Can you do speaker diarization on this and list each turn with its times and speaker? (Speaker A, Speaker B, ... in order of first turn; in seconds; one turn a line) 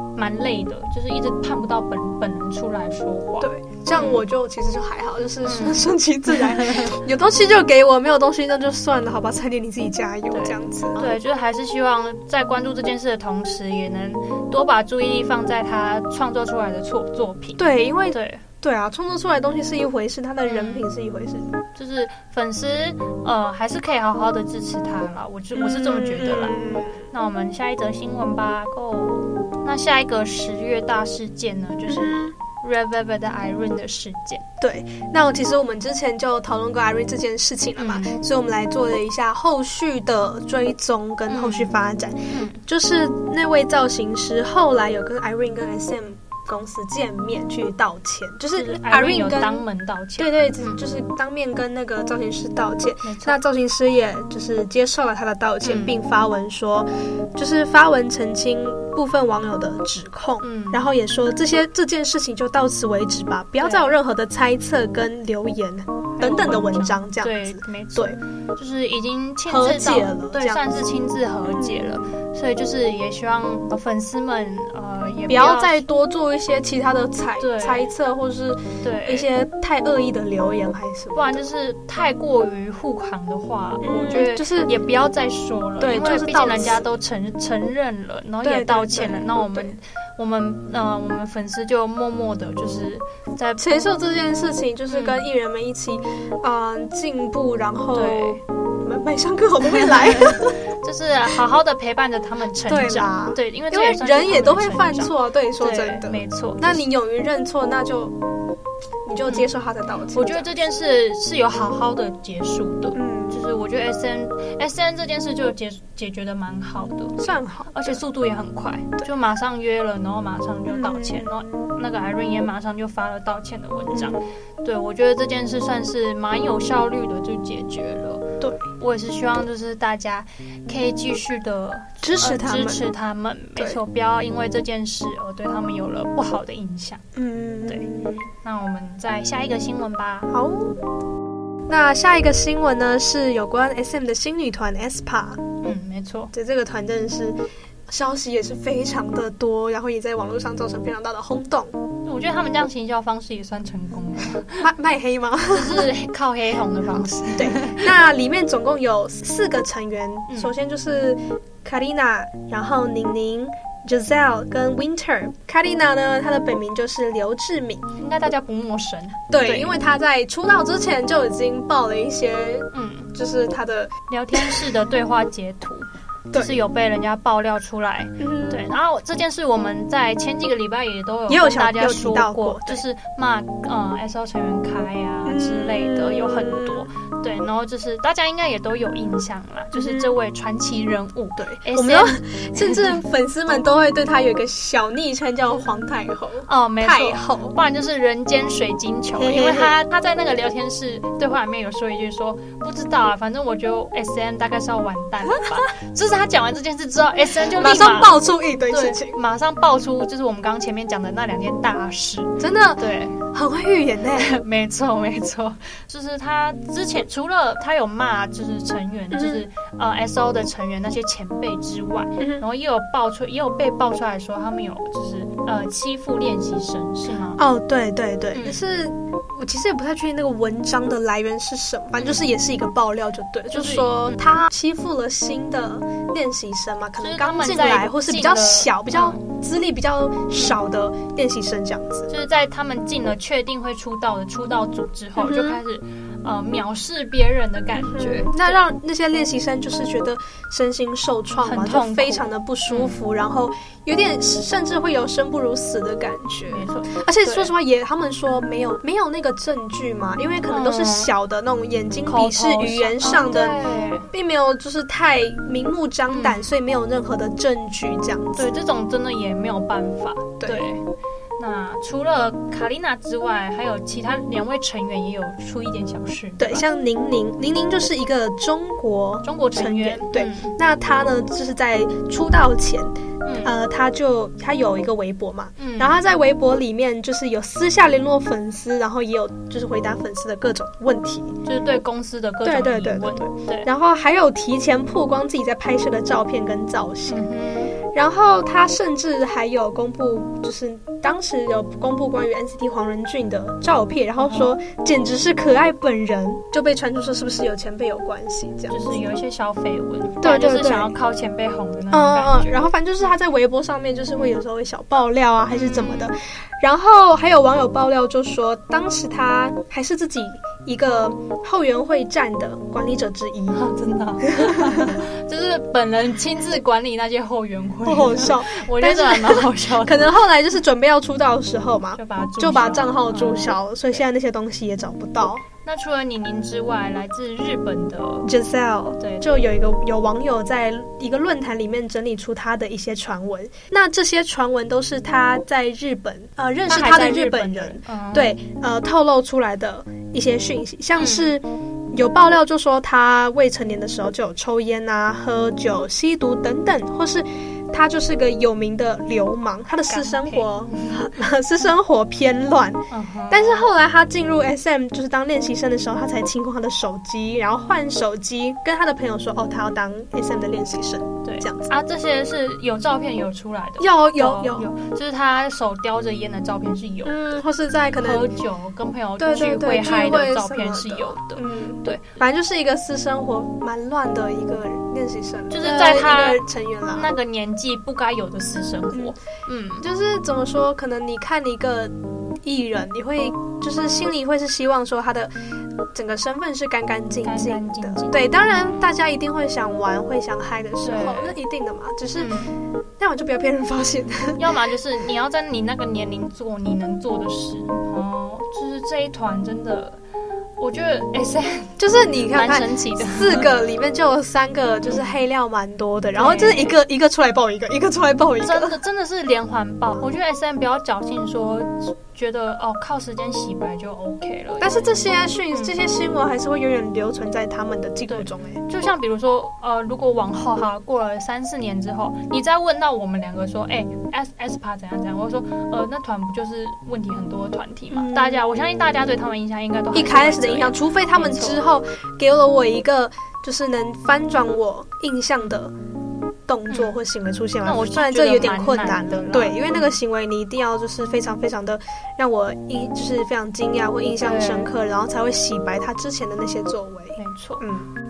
Speaker A: 0.1-4.2
Speaker B: 3.4-11.1
Speaker A: 5.4-6.9
Speaker A: 10.3-18.4
Speaker B: 17.6-21.5
Speaker A: 20.4-20.9
Speaker A: 21.7-26.6
Speaker B: 25.5-27.0
Speaker A: 27.1-34.4
Speaker B: 31.9-32.3
Speaker B: 34.6-49.6
Speaker A: 37.8-38.1
Speaker A: 41.3-41.7
Speaker A: 42.3-42.6
Speaker A: 48.5-50.8
Speaker B: 50.2-68.2
Speaker A: 53.0-53.4
Speaker A: 55.6-56.0
Speaker A: 60.4-60.9
Speaker A: 63.6-63.9
Speaker A: 66.2-75.8
Speaker B: 69.5-72.0
Speaker B: 75.3-81.5
Speaker A: 77.4-77.9
Speaker A: 78.8-79.3
Speaker A: 81.1-93.7
Speaker B: 83.8-84.7
Speaker B: 85.8-86.8
Speaker B: 88.4-89.7
Speaker B: 93.6-100.6
Speaker A: 94.9-95.2
Speaker A: 97.9-98.4
Speaker A: 99.7-106.8
Speaker B: 102.7-108.2
Speaker B: 109.0-110.8
Speaker A: 110.1-128.3
Speaker B: 112.9-113.4
Speaker B: 117.2-118.0
Speaker B: 120.7-121.6
Speaker B: 123.9-124.2
Speaker A: 128.8-137.0
Speaker B: 132.0-132.8
Speaker B: 137.1-138.2
Speaker A: 138.4-140.3
Speaker B: 140.3-140.8
Speaker B: 141.7-145.5
Speaker A: 145.6-146.3
Speaker B: 146.3-151.8
Speaker A: 152.0-154.7
Speaker B: 154.6-155.9
Speaker A: 155.5-157.9
Speaker B: 157.3-167.9
Speaker A: 168.0-169.8
Speaker B: 169.3-174.7
Speaker A: 172.7-173.1
Speaker A: 174.1-193.0
Speaker B: 178.2-178.7
Speaker B: 181.3-182.8
Speaker B: 185.2-186.9
Speaker B: 189.7-190.1
Speaker B: 191.4-197.6
Speaker A: 196.5-213.2
Speaker B: 199.2-199.8
Speaker B: 207.5-209.2
Speaker B: 212.4-214.3
Speaker A: 214.2-227.4
Speaker B: 219.1-219.4
Speaker B: 222.2-222.4
Speaker B: 227.4-242.1
Speaker A: 228.3-228.6
Speaker A: 233.5-234.4
Speaker A: 237.0-239.2
Speaker A: 242.1-248.6
Speaker B: 245.2-245.6
Speaker B: 247.7-268.6
Speaker A: 251.3-252.9
Speaker A: 256.5-257.5
Speaker A: 260.5-261.1
Speaker A: 262.1-264.1
Speaker A: 266.1-266.5
Speaker A: 268.4-270.8
Speaker B: 270.4-270.7
Speaker A: 271.4-276.6
Speaker B: 276.4-291.3
Speaker A: 279.2-280.6
Speaker A: 283.2-283.5
Speaker A: 285.6-285.9
Speaker A: 291.4-293.7
Speaker B: 292.4-297.2
Speaker A: 297.1-297.7
Speaker B: 297.9-308.9
Speaker A: 304.2-304.5
Speaker A: 308.7-312.6
Speaker B: 310.2-310.9
Speaker B: 311.9-323.7
Speaker A: 315.5-316.1
Speaker A: 323.5-330.1
Speaker B: 324.2-325.0
Speaker B: 327.8-335.4
Speaker A: 331.9-334.0
Speaker A: 335.6-338.3
Speaker B: 338.2-371.7
Speaker A: 339.0-339.3
Speaker A: 346.7-348.4
Speaker A: 351.0-351.3
Speaker A: 359.9-361.1
Speaker A: 362.9-363.6
Speaker A: 371.2-377.2
Speaker B: 373.8-374.7
Speaker B: 377.0-378.3
Speaker A: 378.0-382.0
Speaker B: 379.2-387.1
Speaker A: 385.5-389.8
Speaker B: 389.8-395.3
Speaker B: 395.9-402.3
Speaker A: 397.2-398.2
Speaker A: 400.8-401.4
Speaker A: 402.1-402.6
Speaker B: 403.0-404.4
Speaker A: 404.4-410.0
Speaker A: 410.6-411.8
Speaker B: 411.8-418.8
Speaker A: 412.3-413.5
Speaker A: 414.8-415.2
Speaker A: 416.1-416.8
Speaker A: 418.4-425.0
Speaker B: 424.6-428.6
Speaker A: 428.1-441.6
Speaker B: 437.9-438.5
Speaker B: 439.9-445.7
Speaker B: 446.4-457.9
Speaker A: 446.7-446.9
Speaker A: 447.6-449.9
Speaker A: 454.2-454.7
Speaker A: 457.2-457.6